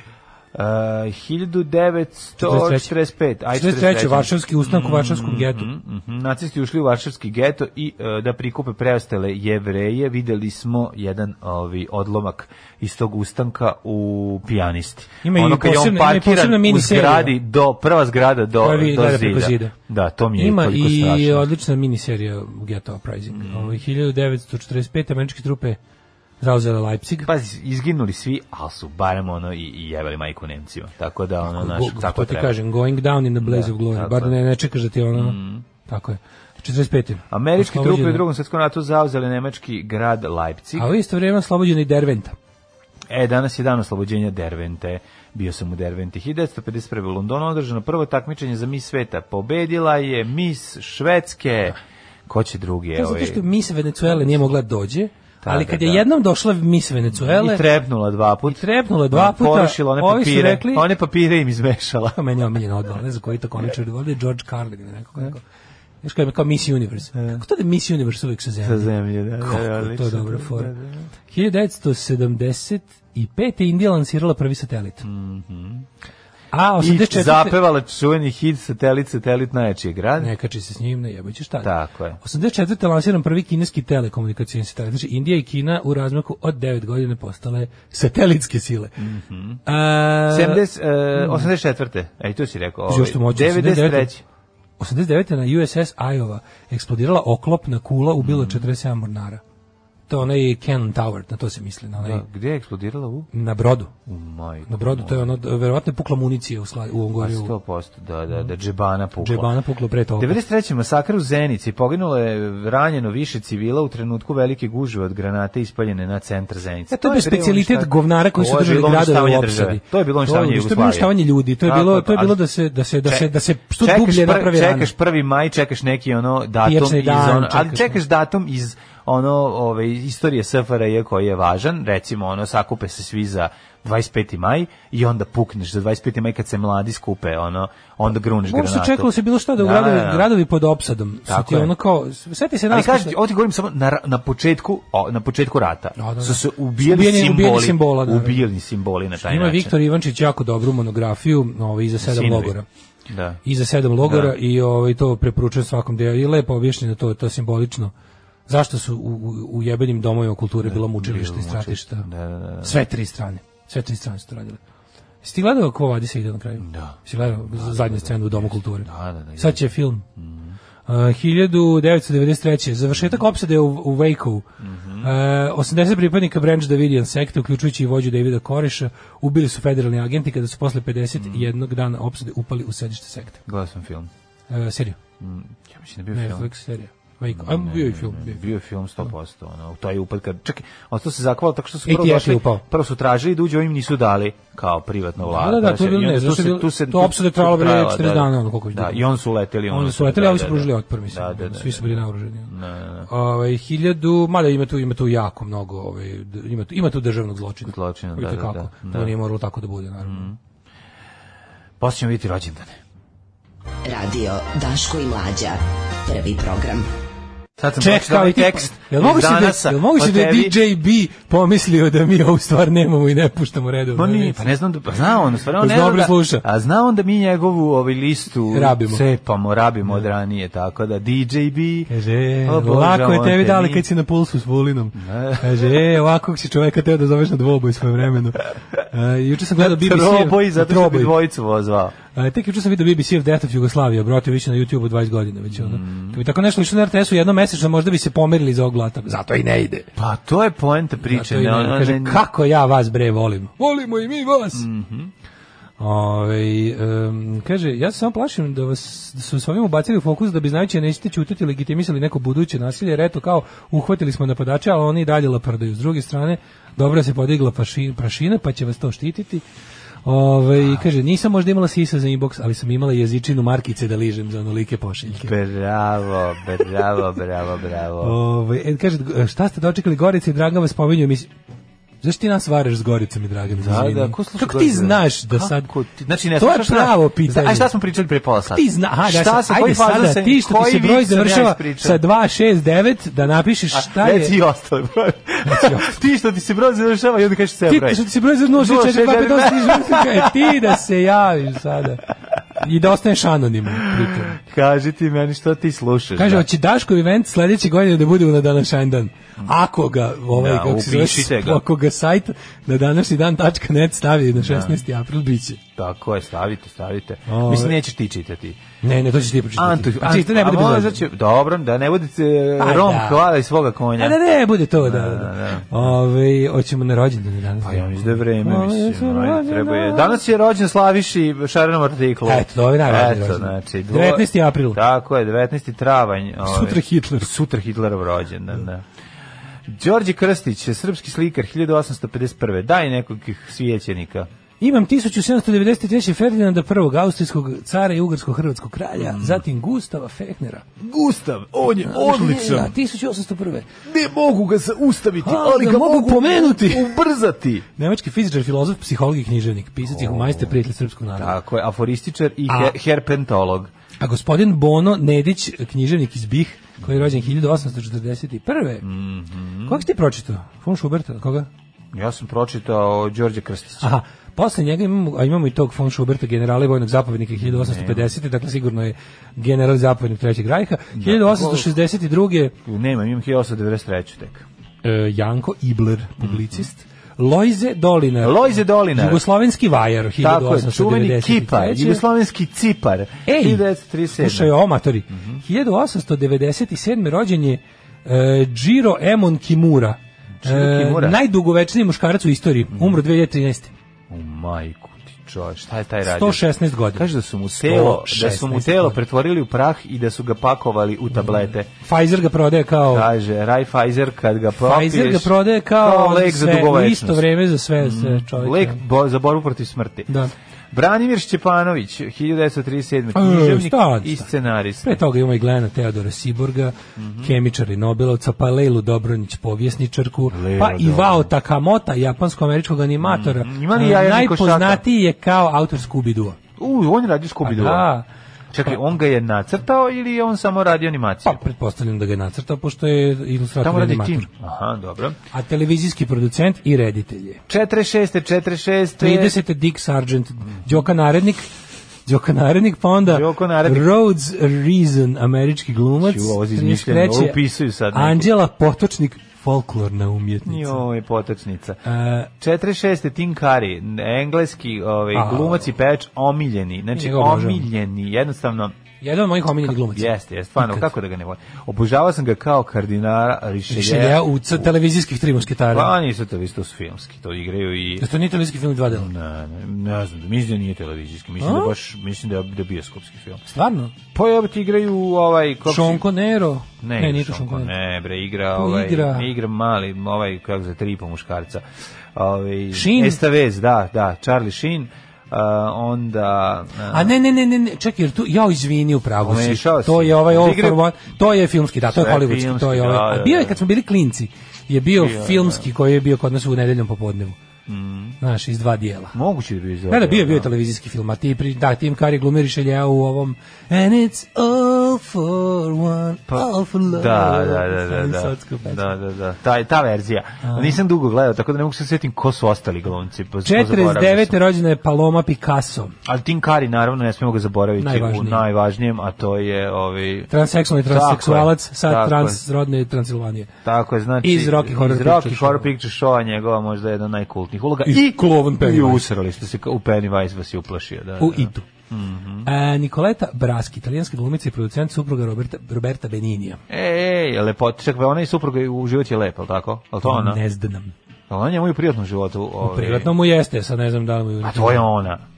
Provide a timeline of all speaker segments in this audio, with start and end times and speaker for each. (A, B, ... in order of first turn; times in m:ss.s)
0:00.5-0:21.4 A
0:02.4-0:02.9 B
0:03.5-0:05.7 B
0:15.2-0:17.3 B
0:18.6-0:19.7 B
0:20.4-0:25.8 B
0:23.3-0:23.8 A
0:26.4-0:27.3 B
0:27.2-0:32.6 A
0:31.4-0:38.2 B
0:33.4-0:34.4 A
0:35.1-0:35.6 A
0:37.3-0:40.9 A
0:40.8-0:42.3 B
0:43.1-0:53.4 A
0:53.0-0:57.6 B
0:54.2-0:54.4 A
0:55.4-0:56.0 A
0:57.1-1:02.2 A
0:58.5-1:00.9 B
1:02.1-1:05.4 B
1:06.0-1:10.7 B
1:07.1-1:07.4 A
1:08.6-1:11.0 A
1:11.3-1:15.0 B
1:15.0-1:15.9 A
1:16.5-1:17.6 B
1:16.8-1:20.3 A
1:20.2-1:29.0 B
1:21.6-1:22.2 A
1:29.0-1:29.6 A
1:29.6-1:30.6 B
1:30.3-1:34.2 A
1:31.1-1:31.5 B
1:32.9-1:34.1 B
1:34.8-1:39.4 B
1:38.2-1:38.7 A
1:40.1-1:42.2 B
1:42.0-1:43.3 A
1:43.3-1:43.9 B
1:44.0-1:45.4 A
1:44.7-1:47.5 B
1:47.2-1:49.5 A
1:49.2-1:50.4 B
1:50.2-2:02.4 A
1:56.9-2:04.9 B
2:03.0-2:20.3 A
2:06.6-2:08.0 B
2:18.4-2:23.2 B
2:21.3-2:21.7 A
2:22.7-2:29.7 A
2:26.0-2:28.4 B
2:29.2-2:32.6 B
2:32.0-2:32.5 A
2:33.1-2:33.4 A
2:33.4-2:37.9 B
2:34.0-2:34.3 A
2:38.5-2:42.1 B
2:40.6-2:42.8 A
2:42.6-2:44.6 B
2:45.2-2:50.0 B
2:46.6-2:50.6 A
2:50.9-2:54.4 B
2:52.9-2:53.2 A
2:54.6-2:55.1 A
2:55.0-3:03.4 B
3:01.2-3:01.5 A
3:03.4-3:04.1 A
3:04.5-3:05.0 B
3:05.2-3:06.5 A
3:06.1-3:08.5 B
3:07.3-3:23.1 A
3:11.9-3:12.6 B
3:15.2-3:19.0 B
3:19.7-3:22.5 B
3:23.1-3:30.3 B
3:27.6-3:29.1 A
3:30.0-3:30.4 A
3:31.8-3:32.8 A
3:33.8-3:36.9 C
3:37.6-3:40.6 A
3:37.8-3:44.5 B
3:43.9-3:51.9 A
3:45.6-3:46.4 B
3:48.5-3:49.0 B
3:51.9-4:01.1 B
3:52.4-3:53.9 A
3:55.0-3:55.8 A
3:59.6-4:01.9 A
4:02.1-4:09.9 B
4:05.5-4:06.2 A
4:10.0-4:12.2 A
4:11.0-4:14.6 B
4:14.5-4:15.1 A
4:15.8-4:29.4 B
4:30.0-4:35.3 B
4:35.1-4:38.2 A
4:38.0-4:41.3 B
4:42.0-4:45.7 B
4:43.5-4:52.0 A
4:46.3-4:47.7 B
4:48.5-4:54.4 B
4:53.7-5:00.8 A
4:55.4-4:56.0 B
4:57.7-5:02.0 B
5:02.6-5:04.3 B
5:03.8-5:06.4 A
5:06.2-5:15.6 B
5:10.3-5:11.6 A
5:14.4-5:14.8 A
5:15.8-5:18.6 A
5:17.3-5:17.8 B
5:18.8-5:21.0 B
5:19.6-5:24.2 A
5:22.6-5:23.2 B
5:24.0-5:30.2 B
5:24.8-5:26.0 A
5:27.6-5:38.8 A
5:32.2-5:34.8 B
5:36.4-5:37.3 B
5:39.7-5:44.3 A
5:44.6-5:50.6 B
5:48.9-5:49.4 A
5:50.8-5:52.7 A
5:51.8-5:53.7 B
5:53.8-5:57.6 A
5:55.2-5:56.9 B
5:57.8-6:01.4 B
5:59.8-6:00.6 A
6:01.2-6:03.7 A
6:02.5-6:02.7 B
6:04.0-6:08.8 B
6:08.8-6:09.8 A
6:09.7-6:11.5 B
6:11.9-6:13.9 A
6:13.8-6:22.5 B
6:17.4-6:18.1 A
6:20.9-6:21.8 A
6:22.6-6:24.4 A
6:24.8-6:32.0 B
6:26.2-6:26.7 A
6:28.2-6:29.2 A
6:30.2-6:34.5 A
6:33.3-6:43.7 B
6:35.1-6:35.4 A
6:40.4-6:41.2 A
6:42.7-6:43.0 A
6:44.1-6:51.7 A
6:46.0-6:49.0 B
6:51.8-6:53.1 B
6:52.9-6:57.3 A
6:54.6-6:58.8 B
6:57.8-7:00.1 A
7:00.7-7:05.0 A
7:03.1-7:04.3 B
7:04.8-7:16.4 B
7:07.0-7:07.3 A
7:10.3-7:11.3 A
7:13.0-7:14.8 A
7:16.6-7:17.9 A
7:17.4-7:18.0 B
7:18.5-7:21.4 A
7:21.2-7:24.2 B
7:23.6-7:25.2 A
7:25.3-7:27.4 B
7:27.5-7:29.4 A
7:29.0-7:31.5 B
7:30.5-7:30.9 A
7:32.0-7:37.4 B
7:33.0-7:33.9 A
7:36.0-7:38.3 A
7:37.9-7:40.8 B
7:40.4-7:48.8 A
7:41.8-7:42.3 B
7:45.1-7:45.7 B
7:46.9-7:47.7 B
7:49.0-7:50.9 B
7:49.6-7:54.7 A
7:53.7-7:55.9 B
7:55.7-7:58.1 A
7:58.0-7:59.1 B
7:58.9-8:03.4 A
8:01.4-8:01.7 B
8:03.5-8:03.9 B
8:04.1-8:06.0 A
8:05.7-8:07.7 B
8:06.8-8:11.6 A
8:08.5-8:09.3 B
8:12.1-8:17.1 A
8:12.7-8:13.2 B
8:16.9-8:27.4 B
8:19.2-8:20.8 A
8:21.9-8:23.6 A
8:24.9-8:25.7 A
8:27.7-8:28.2 A
8:28.2-8:29.2 B
8:29.1-8:30.5 A
8:29.9-8:38.9 B
8:36.3-8:44.4 A
8:40.4-8:40.8 B
8:43.4-8:45.9 B
8:46.0-8:50.3 A
8:47.8-8:48.4 B
8:50.3-8:53.5 B
8:50.8-8:52.4 A
8:53.6-9:02.5 A
8:54.2-8:55.7 B
8:57.9-8:59.0 B
9:01.2-9:01.7 B
9:02.4-9:06.6 B
9:06.7-9:10.4 A
9:10.0-9:10.9 B
9:11.3-9:13.1 A
9:12.6-9:14.9 B
9:14.4-9:15.2 A